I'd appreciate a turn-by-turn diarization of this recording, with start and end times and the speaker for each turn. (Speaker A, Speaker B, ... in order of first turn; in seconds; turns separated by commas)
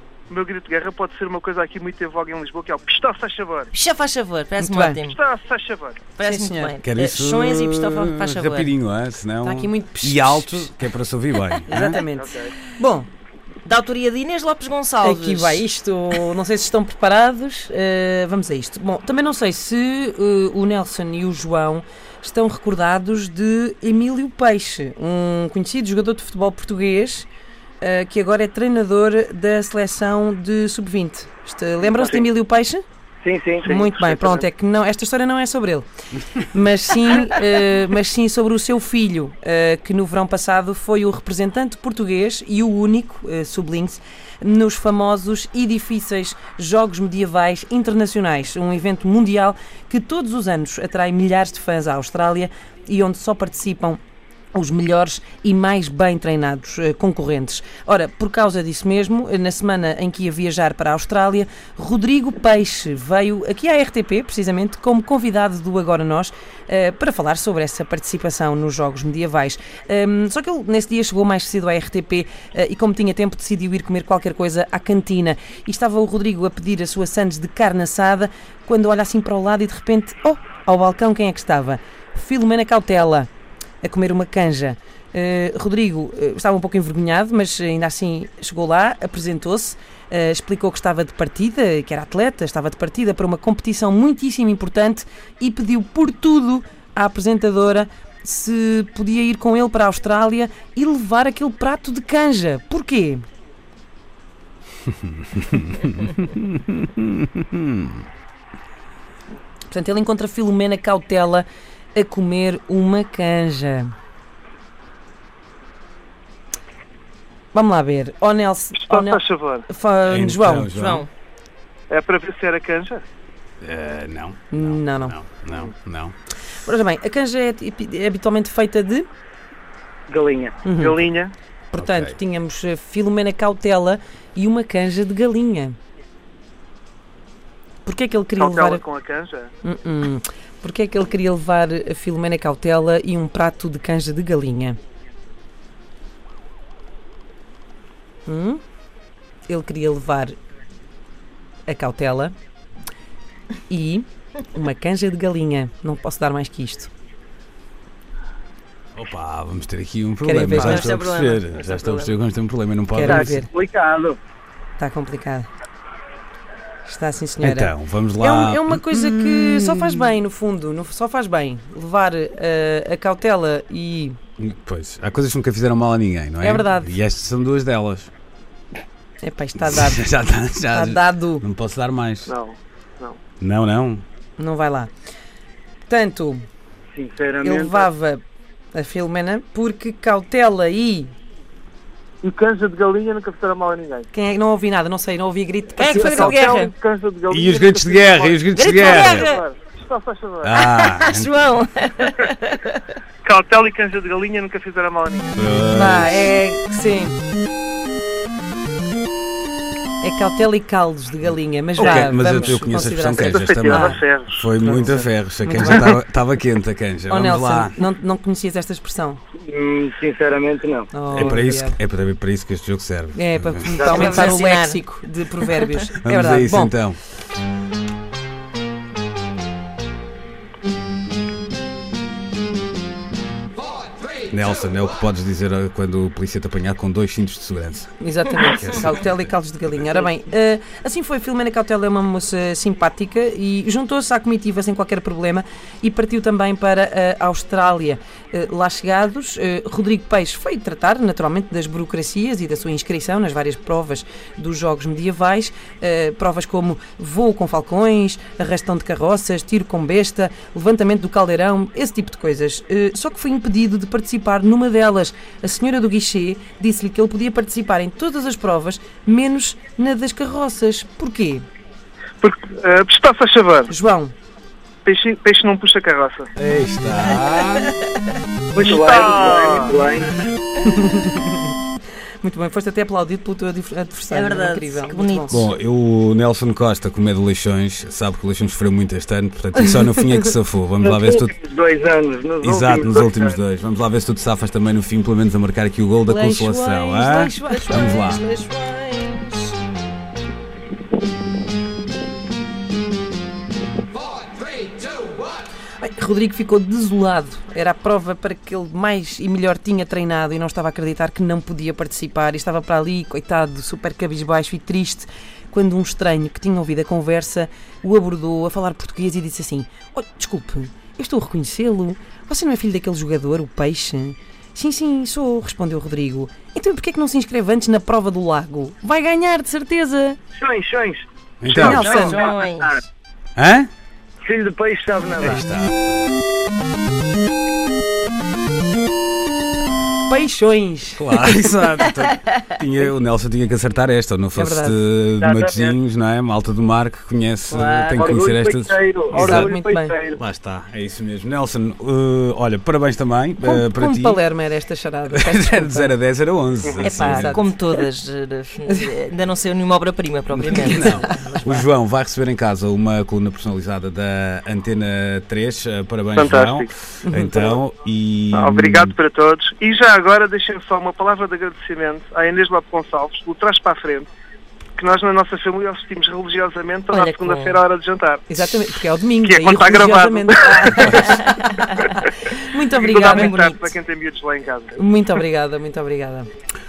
Speaker A: 0.3-3.7, Speaker B: 3.7-5.2, Speaker C: 4.6-5.0, Speaker A: 5.1-6.0, Speaker B: 6.2-8.7, Speaker C: 6.2-6.7, Speaker D: 6.8-12.0, Speaker C: 9.4-10.7, Speaker C: 11.7-13.1, Speaker A: 12.0-12.6, Speaker B: 13.7-15.6, Speaker C: 15.0-27.3, Speaker C: 27.8-32.8, Speaker A: 31.8-32.2, Speaker E: 33.2-33.7, Speaker A: 33.6-34.5, Speaker C: 33.7-35.9, Speaker C: 36.4-54.0, Speaker C: 54.5-83.3, Speaker C: 83.8-103.2, Speaker D: 105.5-107.8, Speaker C: 109.7-113.9, Speaker C: 117.5-120.8, Speaker A: 118.8-119.7, Speaker D: 120.0-121.0, Speaker B: 120.7-121.1, Speaker A: 121.9-123.0, Speaker D: 123.6-126.1, Speaker C: 124.5-125.1, Speaker C: 126.6-129.1, Speaker E: 130.1-130.6, Speaker C: 130.6-131.0, Speaker A: 130.7-131.3, Speaker C: 131.7-135.8, Speaker D: 131.8-132.2, Speaker C: 137.8-138.8, Speaker A: 138.4-139.5, Speaker C: 139.6-144.8, Speaker C: 148.3-148.6, Speaker C: 149.5-150.3, Speaker C: 151.7-152.3, Speaker C: 153.7-156.9, Speaker D: 158.9-163.4, Speaker C: 160.2-161.0, Speaker B: 160.4-162.2, Speaker C: 162.9-163.5, Speaker E: 163.0-164.2, Speaker C: 164.8-165.5, Speaker C: 166.8-174.2, Speaker D: 167.4-170.1, Speaker D: 174.4-178.1, Speaker C: 176.4-177.0, Speaker C: 179.2-180.0, Speaker D: 179.6-182.3, Speaker C: 180.7-181.4, Speaker A: 182.3-183.2, Speaker D: 183.4-184.0, Speaker C: 184.4-184.9, Speaker C: 185.9-186.4, Speaker E: 186.9-187.9, Speaker C: 187.4-188.2, Speaker C: 188.7-191.1, Speaker A: 192.2-194.1, Speaker C: 194.1-196.4, Speaker B: 195.8-196.7, Speaker A: 195.9-200.7, Speaker D: 197.3-199.3, Speaker B: 198.5-199.4, Speaker D: 200.4-201.3, Speaker B: 200.6-202.8, Speaker A: 203.2-205.3, Speaker D: 205.4-206.3, Speaker C: 205.6-207.2, Speaker C: 210.0-214.0, Speaker D: 211.8-217.8, Speaker A: 213.2-214.5, Speaker C: 214.6-215.9, Speaker C: 217.1-219.2, Speaker E: 219.4-221.3, Speaker C: 220.9-221.8, Speaker D: 221.1-223.7, Speaker C: 223.1-226.8, Speaker E: 223.8-224.3, Speaker B: 223.8-224.8, Speaker D: 226.0-227.0, Speaker D: 234.3-237.9, Speaker C: 238.0-271.4, Speaker D: 238.4-239.1, Speaker A: 272.2-273.7, Speaker C: 273.7-274.1, Speaker A: 274.9-276.3, Speaker D: 276.4-277.7, Speaker B: 277.1-277.7, Speaker E: 278.6-280.2, Speaker A: 278.6-279.8, Speaker C: 280.6-281.6, Speaker C: 282.2-285.5, Speaker B: 284.1-285.5, Speaker D: 285.3-291.3, Speaker E: 290.8-293.4, Speaker D: 292.4-298.2, Speaker C: 296.1-298.2, Speaker B: 297.5-299.6, Speaker C: 305.8-330.2, Speaker E: 330.3-332.8, Speaker D: 331.4-331.9, Speaker C: 331.5-332.2, Speaker B: 331.6-332.9, Speaker D: 333.4-333.7, Speaker E: 334.2-335.4, Speaker D: 335.2-335.9, Speaker C: 340.1-341.5, Speaker D: 341.0-349.5, Speaker C: 344.4-344.8, Speaker E: 345.2-345.8, Speaker B: 347.6-347.9, Speaker E: 347.9-350.2, Speaker C: 349.1-349.9, Speaker D: 350.2-354.2, Speaker C: 353.4-355.9, Speaker D: 355.1-357.4, Speaker C: 356.8-357.6, Speaker B: 356.8-361.5, Speaker D: 360.5-368.9, Speaker A: 366.1-366.7, Speaker C: 367.0-367.5, Speaker A: 368.3-374.1, Speaker A: 374.8-378.7, Speaker B: 376.9-377.6, Speaker C: 378.3-383.7, Speaker A: 379.2-381.0, Speaker B: 381.1-381.6, Speaker A: 381.9-382.2, Speaker A: 382.8-384.8, Speaker B: 383.1-383.4, Speaker C: 384.7-386.3